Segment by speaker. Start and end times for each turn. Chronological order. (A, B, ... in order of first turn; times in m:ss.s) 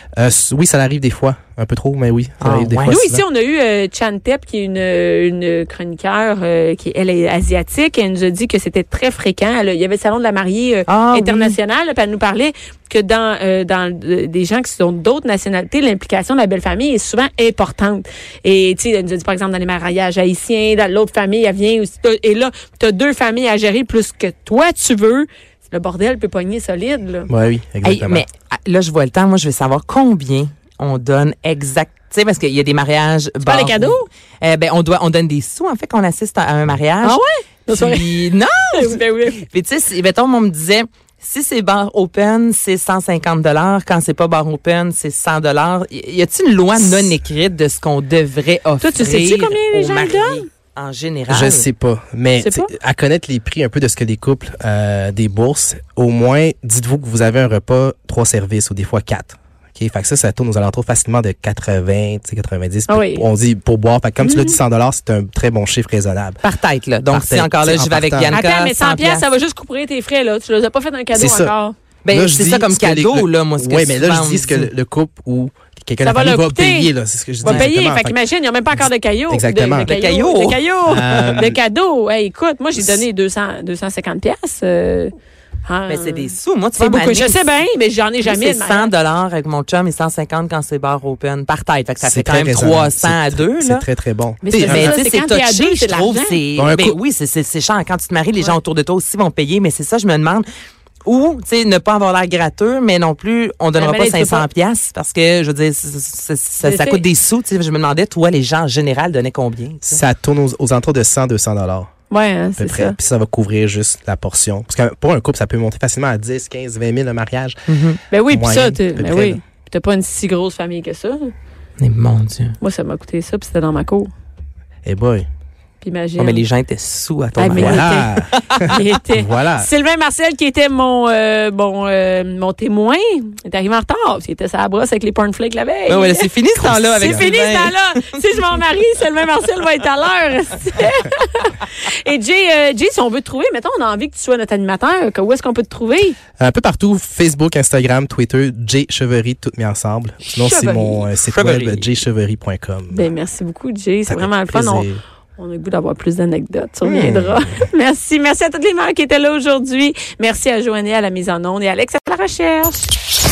0:00.2-0:03.2 A
0:02.4-0:03.0 B
0:02.9-0:27.3 C
0:10.9-0:11.6 B
0:27.3-0:28.2 A
0:27.8-0:51.6 B
0:33.4-0:34.1 C
0:37.0-0:39.4 C
0:48.8-0:50.5 C
0:51.3-1:06.4 A
0:52.4-0:52.7 C
1:02.9-1:03.2 C
1:04.2-1:04.6 C
1:06.4-1:09.3 B
1:07.1-1:08.4 A
1:08.3-1:11.8 C
1:11.1-1:11.6 A
1:12.0-1:14.7 B
1:12.1-1:18.2 A
1:16.0-1:16.9 C
1:17.4-1:17.7 B
1:17.4-1:25.1 C
1:18.7-1:20.0 A
1:19.8-1:21.4 B
1:20.9-1:21.6 A
1:25.7-1:28.9 C
1:25.9-1:27.5 B
1:28.2-1:33.8 B
1:32.0-1:35.0 A
1:34.4-1:36.4 C
1:34.6-1:40.4 B
1:36.6-1:37.0 A
1:41.1-1:50.0 B
1:43.8-1:44.5 C
1:46.6-1:47.0 C
1:49.9-1:51.9 A
1:52.1-1:53.0 C
1:52.6-1:57.6 A
1:57.7-1:58.0 B
1:58.1-2:01.3 C
1:58.3-1:59.4 A
2:01.8-2:02.6 B
2:02.6-2:04.1 C
2:04.8-2:05.3 A
2:05.8-2:06.4 C
2:06.2-2:08.8 B
2:07.4-2:08.1 C
2:07.4-2:09.7 A
2:08.7-2:26.2 C
2:15.9-2:18.4 B
2:16.6-2:17.3 A
2:26.4-2:33.1 A
2:30.2-2:31.1 C
2:31.2-2:32.0 B
2:32.9-2:42.8 C
2:34.1-2:35.0 A
2:36.8-2:37.4 A